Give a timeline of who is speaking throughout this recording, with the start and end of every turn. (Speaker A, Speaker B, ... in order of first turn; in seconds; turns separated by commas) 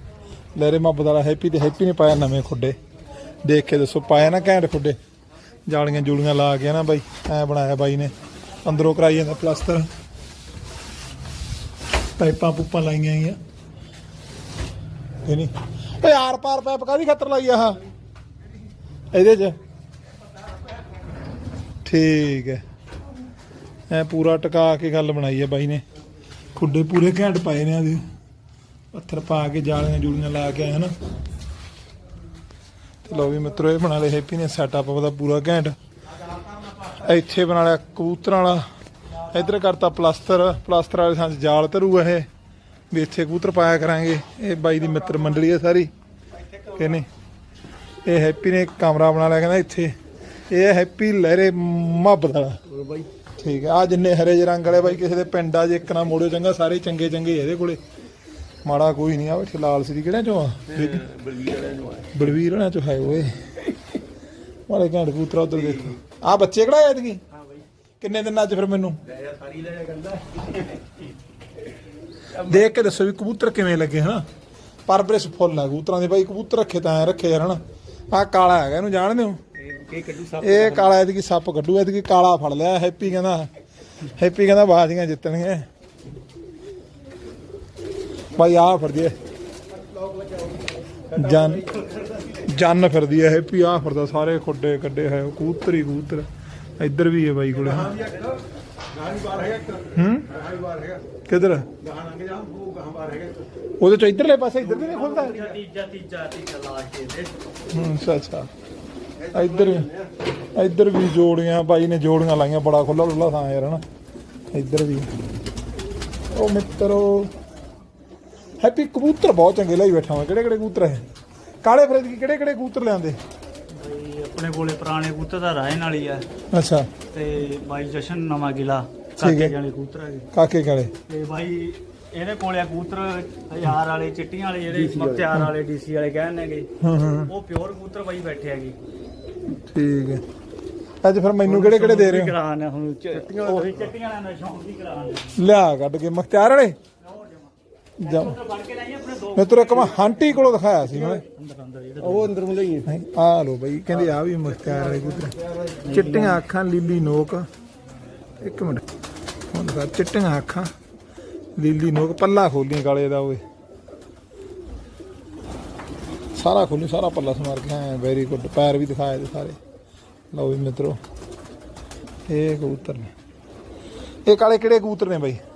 Speaker A: 0.6-2.8, Speaker A: 3.5-5.0, Speaker A: 5.7-8.1, Speaker A: 8.6-9.9, Speaker A: 12.2-13.4, Speaker A: 15.2-17.8, Speaker A: 19.1-19.6, Speaker A: 21.9-22.6, Speaker A: 23.9-25.8, Speaker A: 26.6-28.0, Speaker A: 28.9-30.9, Speaker A: 33.0-35.8, Speaker A: 36.8-42.3, Speaker A: 42.9-45.9, Speaker A: 46.7-47.1, Speaker A: 48.1-50.0, Speaker A: 50.5-52.6, Speaker B: 52.7-53.1, Speaker A: 53.4-57.8, Speaker A: 58.6-61.1, Speaker B: 60.9-62.1, Speaker A: 62.1-63.7, Speaker A: 64.7-67.2, Speaker A: 68.0-69.0, Speaker B: 69.1-70.5, Speaker A: 72.3-74.3, Speaker A: 74.9-79.4, Speaker C: 79.7-80.9, Speaker A: 80.4-83.5, Speaker A: 84.0-85.7, Speaker A: 88.3-89.2, Speaker B: 90.0-90.5, Speaker A: 91.1-91.8, Speaker B: 91.3-92.1, Speaker A: 92.4-96.3, Speaker A: 96.8-98.0, Speaker B: 97.8-98.4, Speaker B: 98.9-101.0, Speaker A: 99.9-100.3, Speaker A: 101.3-101.7, Speaker B: 101.8-103.5, Speaker A: 103.8-105.5, Speaker C: 104.6-107.4, Speaker A: 107.7-108.5, Speaker B: 109.2-110.1, Speaker A: 109.3-109.9, Speaker A: 110.5-113.8, Speaker A: 114.5-115.1, Speaker A: 116.3-117.3, Speaker A: 118.6-121.1, Speaker A: 121.6-123.2, Speaker C: 123.7-126.3, Speaker A: 126.5-126.9, Speaker C: 127.1-130.3, Speaker A: 129.2-129.5, Speaker A: 130.3-130.9, Speaker C: 131.1-136.7, Speaker B: 134.7-135.3, Speaker A: 136.8-137.3, Speaker C: 137.3-138.8, Speaker A: 139.7-140.2, Speaker A: 141.0-142.4, Speaker C: 141.4-145.4, Speaker B: 143.1-143.9, Speaker A: 145.3-146.8, Speaker C: 147.0-147.5, Speaker A: 148.0-148.4, Speaker C: 148.0-152.4, Speaker A: 149.3-151.2, Speaker B: 152.0-152.9, Speaker A: 152.8-157.5, Speaker B: 155.4-155.8, Speaker C: 155.8-156.4, Speaker A: 158.4-158.8, Speaker A: 159.5-160.7, Speaker A: 161.6-163.4, Speaker A: 166.3-169.6, Speaker A: 170.3-171.0, Speaker A: 172.3-173.1, Speaker A: 174.3-175.4